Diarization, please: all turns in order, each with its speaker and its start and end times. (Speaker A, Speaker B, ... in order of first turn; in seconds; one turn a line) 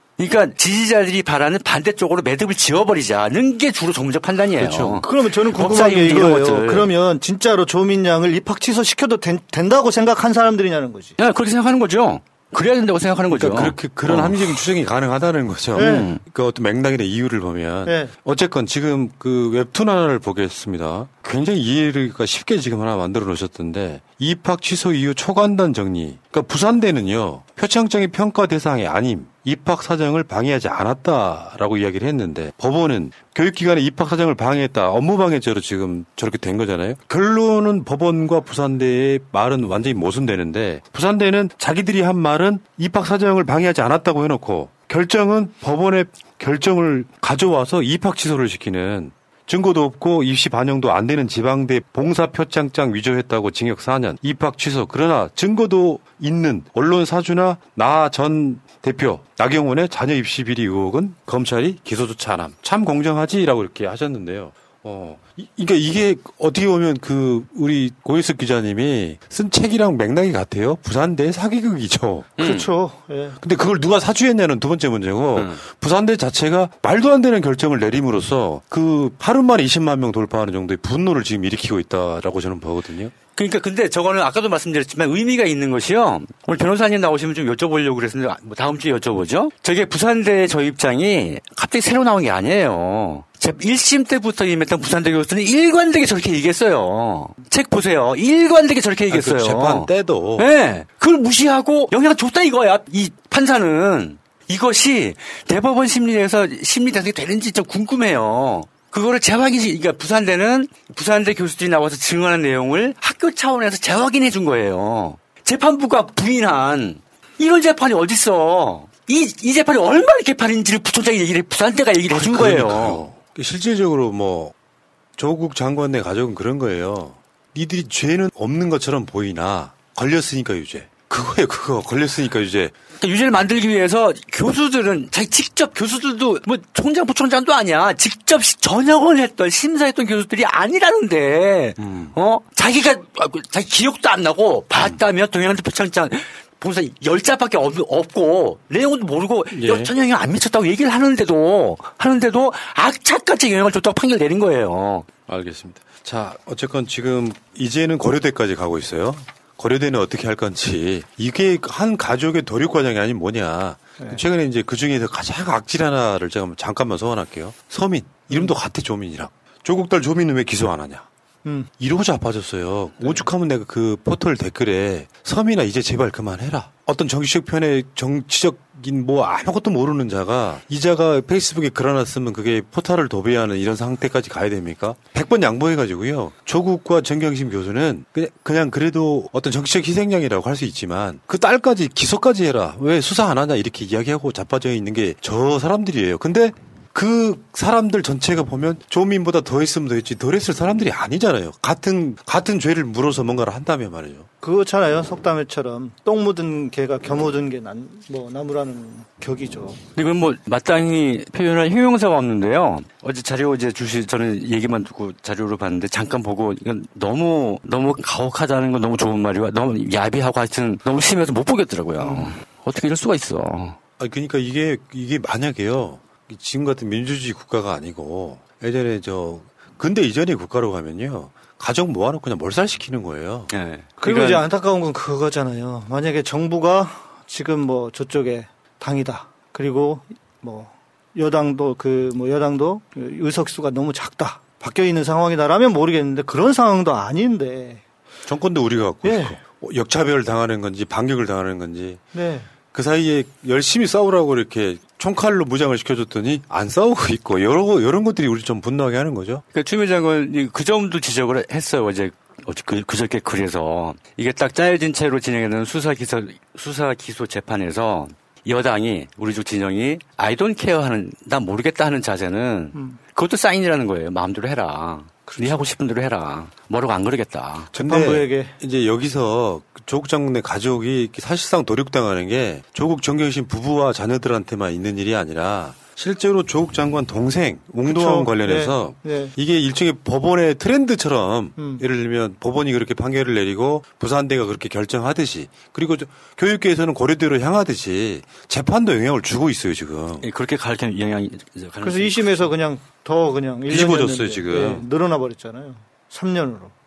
Speaker A: 0.2-6.9
Speaker B: 4.6-5.0
Speaker C: 5.0-11.2
Speaker A: 11.2-14.5
Speaker B: 13.3-72.4
Speaker C: 15.8-16.1
Speaker A: 15.8-16.2
Speaker C: 17.9-18.1
Speaker A: 72.4-72.7
Speaker C: 72.4-73.4
Speaker B: 73.4-83.1
Speaker A: 75.4-75.6
Speaker A: 83.4-123.1
Speaker B: 99.1-100.5
Speaker B: 122.1-124.5
Speaker B: 125.2-132.7
Speaker A: 133.0-155.1
Speaker B: 141.8-142.1
Speaker B: 149.5-149.9
Speaker B: 155.3-171.1
Speaker C: 171.4-171.7
Speaker B: 171.8-204.3
Speaker C: 173.0-173.3
Speaker C: 204.4-209.8
Speaker A: 209.9-223.8
Speaker C: 222.0-222.3
Speaker B: 224.0-233.5
Speaker A: 233.5-234.4
Speaker C: 234.0-247.8
Speaker B: 248.3-252.1
Speaker C: 249.0-249.4
Speaker C: 252.1-252.5
Speaker B: 252.7-259.4
Speaker A: 259.5-277.7
Speaker C: 272.8-273.0
Speaker C: 275.3-275.6
Speaker B: 277.7-300.3
Speaker C: 277.8-278.6
Speaker C: 287.9-289.3
Speaker C: 291.6-291.8
Speaker A: 300.2-302.5
Speaker C: 301.8-306.7
Speaker B: 303.7-304.9